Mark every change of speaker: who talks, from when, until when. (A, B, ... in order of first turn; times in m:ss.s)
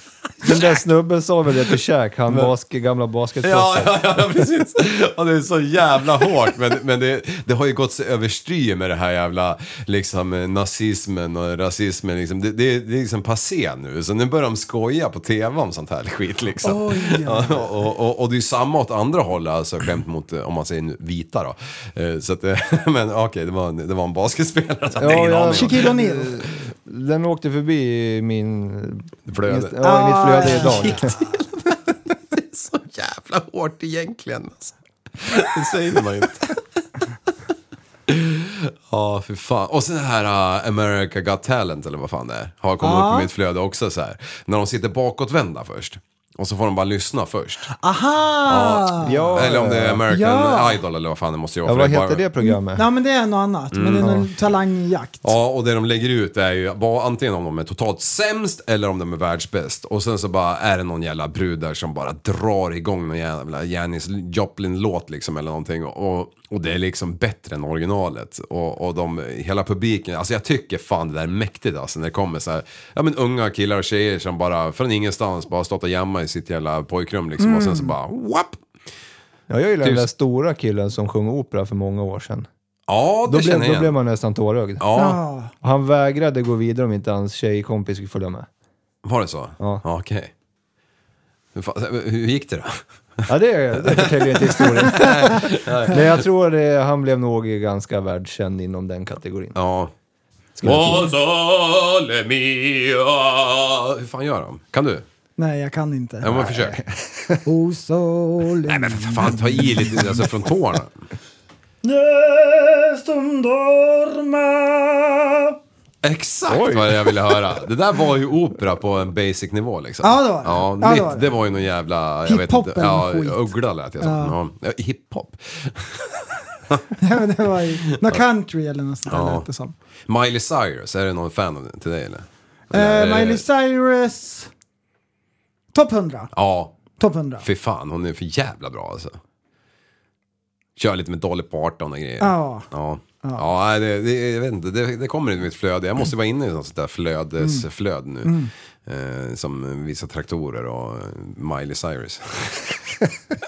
0:00.4-0:04.0 A
0:03.4-0:26.0 B
0:16.6-0:17.7 C
0:25.0-0:31.1 A
0:25.5-0:26.4 C
0:29.3-0:36.6 B
0:29.8-0:31.1 C
0:38.1-0:47.7 B
0:42.8-0:43.3 C
0:47.7-0:49.4 C
0:48.4-0:52.3 B
0:49.0-0:50.0 A
0:50.1-0:50.8 C
0:51.6-0:52.8 A
0:52.4-0:55.3 C
0:53.7-0:54.2 B
0:54.0-0:54.3 A
0:55.2-1:18.6 B
1:17.4-1:17.9 C
1:19.5-1:22.5 A
1:19.8-1:20.1 B
1:22.9-1:23.9 B
1:23.2-1:24.8 A
1:24.8-1:25.2 B
1:24.9-1:25.5 C
1:25.6-1:28.5 A
1:29.0-1:30.3 B
1:31.5-1:32.8 B
1:33.3-1:39.6 A
1:33.8-1:36.2 B
1:39.5-1:39.9 B
1:40.6-1:41.1 A
1:40.6-1:45.0 B
1:45.4-1:46.6 C
1:46.2-1:46.8 B
1:46.5-1:47.4 A
1:47.4-1:49.4 C
1:48.7-1:50.9 B
1:51.8-1:55.6 C
1:56.0-2:07.0 B
1:56.5-1:57.4 A
2:00.0-2:01.3 C
2:02.3-2:03.5 C
2:04.0-2:04.4 C
2:07.0-2:09.7 C
2:09.1-2:09.4 B
2:10.1-2:13.4 B
2:12.7-2:14.5 C
2:15.7-2:16.3 C
2:16.3-2:16.8 B
2:17.0-2:17.4 C
2:17.4-2:19.2 B
2:20.8-2:28.4 B
2:22.2-2:22.7 C
2:27.4-2:27.7 C
2:28.2-2:28.5 C
2:28.9-2:32.8 B